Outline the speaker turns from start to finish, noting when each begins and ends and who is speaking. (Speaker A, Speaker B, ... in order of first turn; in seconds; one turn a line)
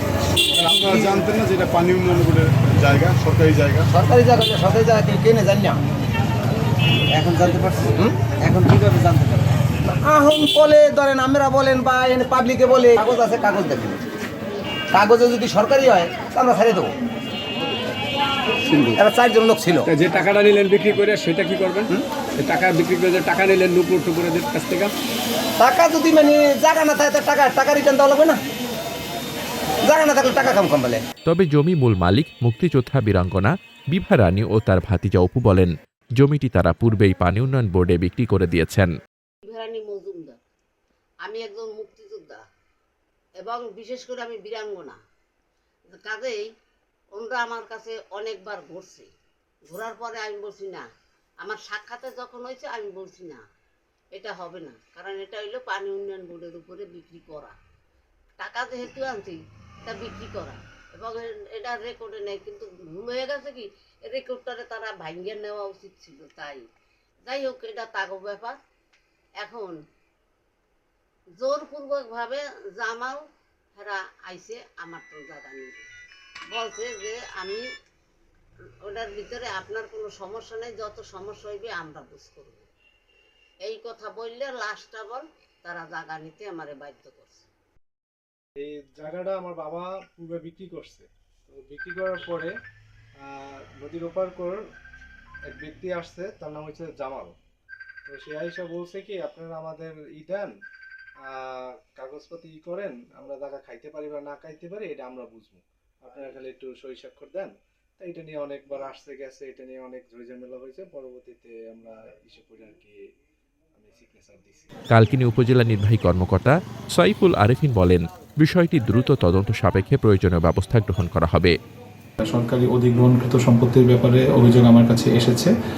Speaker A: 0.6-3.9
Speaker B: 0.7-1.2
Speaker B: 3.9-5.8
Speaker B: 7.1-14.0
Speaker B: 14.9-16.9
Speaker C: 18.7-19.0
Speaker B: 18.9-19.9
Speaker C: 19.8-24.9
Speaker B: 25.6-28.4
Speaker B: 29.8-31.0
Speaker D: 31.3-38.9
Speaker E: 39.4-40.4
Speaker E: 41.2-42.4
Speaker E: 43.4-45.0
Speaker E: 45.9-46.5
Speaker E: 47.1-49.1
Speaker E: 49.7-50.9
Speaker E: 51.4-53.4
Speaker E: 54.1-57.5
Speaker E: 58.4-66.6
Speaker E: 67.2-68.6
Speaker E: 69.4-69.8
Speaker E: 71.4-73.2
Speaker E: 73.8-75.8
Speaker E: 76.5-77.6
Speaker E: 78.8-82.7
Speaker E: 83.6-87.4
Speaker F: 88.6-92.5
Speaker F: 93.2-94.6
Speaker F: 95.5-97.3
Speaker F: 98.0-100.5
Speaker F: 101.3-112.9
Speaker F: 113.8-114.6
Speaker D: 114.9-121.5
Speaker G: 122.2-125.5